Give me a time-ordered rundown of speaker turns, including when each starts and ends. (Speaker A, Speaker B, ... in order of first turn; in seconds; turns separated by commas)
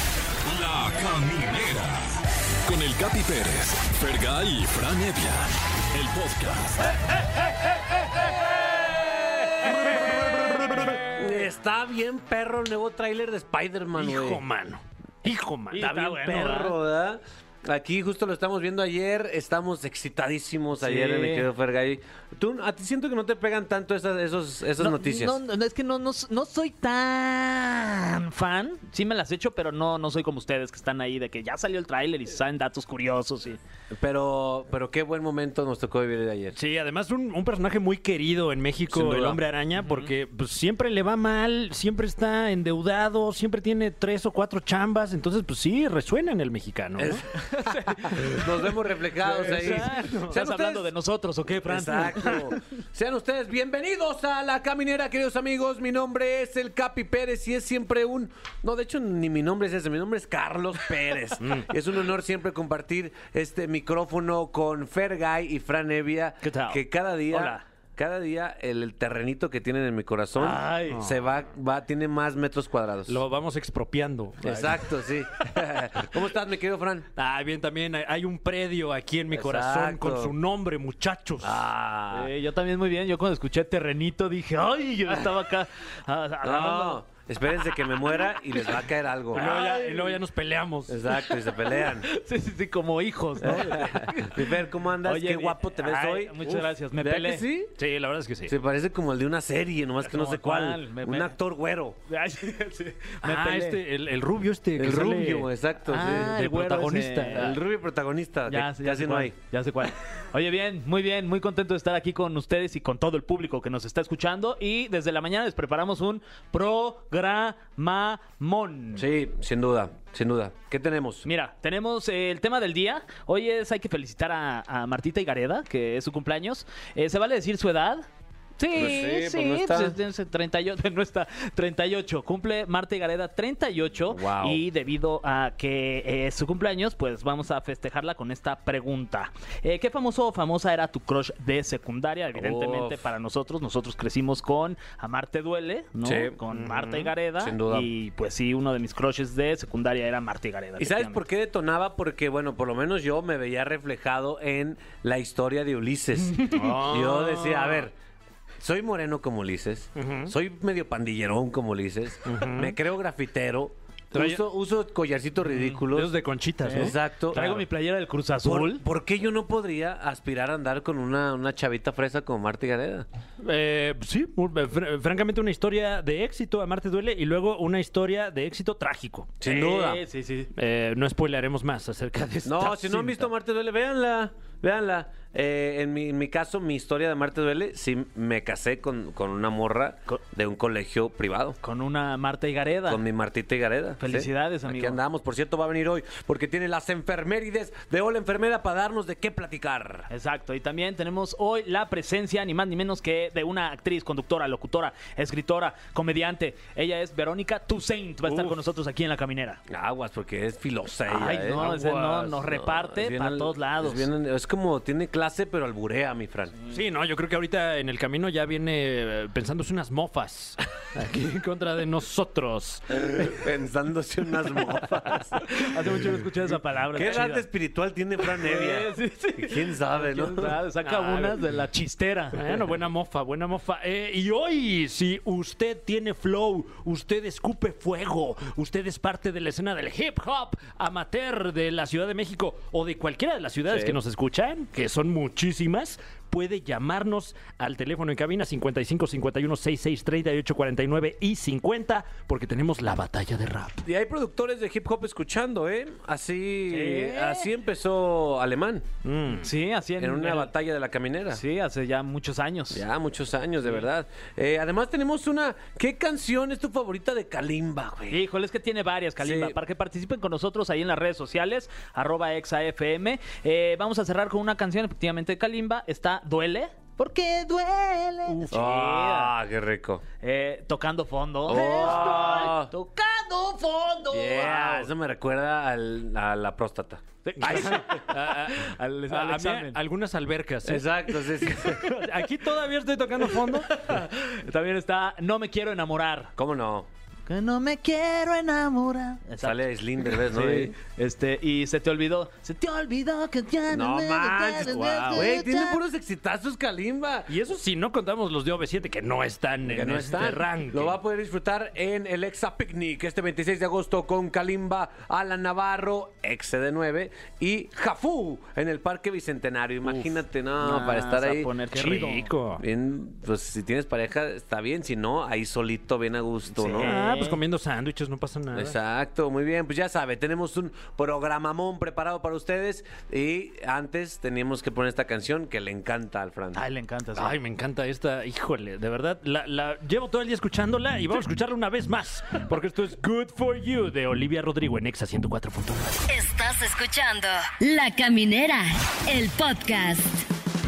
Speaker A: 0.5-2.1, Speaker A: 2.7-6.9, Speaker B: 8.7-14.4, Speaker C: 10.0-11.0, Speaker C: 13.9-16.1, Speaker D: 15.7-16.8, Speaker B: 15.8-25.4, Speaker D: 20.8-21.5, Speaker D: 24.8-33.6, Speaker B: 33.9-36.6, Speaker C: 36.5-47.2, Speaker B: 38.9-39.4, Speaker D: 39.8-40.1, Speaker B: 47.0-50.9, Speaker D: 47.4-48.4, Speaker D: 49.2-52.5, Speaker C: 49.2-50.4, Speaker B: 51.6-73.2, Speaker C: 61.4-61.7, Speaker D: 66.4-67.6, Speaker D: 70.4-71.0, Speaker C: 70.9-71.3, Speaker C: 73.1-74.9, Speaker B: 74.4-77.1, Speaker C: 77.2-81.7, Speaker B: 79.3-80.3, Speaker B: 81.4-82.3, Speaker D: 82.1-87.0, Speaker B: 86.4-89.6, Speaker C: 89.3-91.0, Speaker D: 89.3-90.2, Speaker B: 90.9-92.1, Speaker D: 91.1-94.4, Speaker B: 93.4-97.8, Speaker D: 95.0-97.5, Speaker C: 97.8-98.5, Speaker B: 98.5-102.0, Speaker D: 100.0-101.3, Speaker D: 102.1-103.8, Speaker C: 103.2-107.6, Speaker B: 104.8-106.3, Speaker D: 105.8-107.6, Speaker B: 107.3-109.3, Speaker D: 108.5-119.1, Speaker B: 119.0-121.3, Speaker D: 121.2-128.1, Speaker D: 128.6-151.2, Speaker B: 128.7-130.0, Speaker B: 134.1-134.6, Speaker B: 142.3-143.0, Speaker B: 146.0-146.4, Speaker C: 146.5-147.1, Speaker B: 147.4-147.9, Speaker B: 150.8-157.9, Speaker C: 156.5-157.9, Speaker B: 158.6-166.1, Speaker C: 160.0-160.3, Speaker C: 162.2-162.8, Speaker C: 164.1-164.4, Speaker C: 165.9-167.6, Speaker D: 166.7-168.8, Speaker B: 166.7-167.7, Speaker B: 168.4-173.1, Speaker C: 173.4-179.3, Speaker B: 179.4-180.0, Speaker D: 179.4-180.5, Speaker C: 180.6-183.3, Speaker B: 182.4-191.6, Speaker D: 191.6-193.0, Speaker B: 192.9-200.1, Speaker D: 194.0-195.0, Speaker D: 200.1-209.6, Speaker B: 208.3-208.6, Speaker B: 209.7-216.6, Speaker D: 211.1-214.1, Speaker C: 211.5-211.8, Speaker C: 216.7-223.3, Speaker B: 223.0-225.7, Speaker D: 225.5-227.4, Speaker B: 226.9-230.6, Speaker D: 228.4-232.5, Speaker C: 230.9-231.3, Speaker C: 232.3-253.8, Speaker B: 243.7-244.0, Speaker B: 253.8-258.9, Speaker D: 256.7-257.5, Speaker C: 259.0-259.5, Speaker D: 259.4-260.5, Speaker B: 260.0-261.4, Speaker D: 261.3-262.8, Speaker B: 262.7-268.2, Speaker D: 268.1-279.3, Speaker B: 269.2-269.6, Speaker C: 278.3-278.7, Speaker B: 278.5-280.0, Speaker D: 280.2-284.9, Speaker B: 281.5-282.7, Speaker B: 284.1-288.0, Speaker D: 287.2-289.8, Speaker C: 287.4-290.9, Speaker B: 290.7-291.9, Speaker C: 291.8-294.0, Speaker D: 293.3-296.3, Speaker B: 296.4-296.9, Speaker D: 297.3-305.8, Speaker B: 299.4-300.8, Speaker B: 303.7-307.3, Speaker C: 304.6-305.3, Speaker C: 307.3-311.0, Speaker B: 309.6-321.5, Speaker D: 319.8-322.3, Speaker C: 321.7-322.6, Speaker B: 322.6-326.9, Speaker D: 326.5-327.4, Speaker C: 326.8-328.8, Speaker B: 328.6-336.6, Speaker D: 336.5-337.4, Speaker C: 337.2-346.1, Speaker E: 346.1-350.3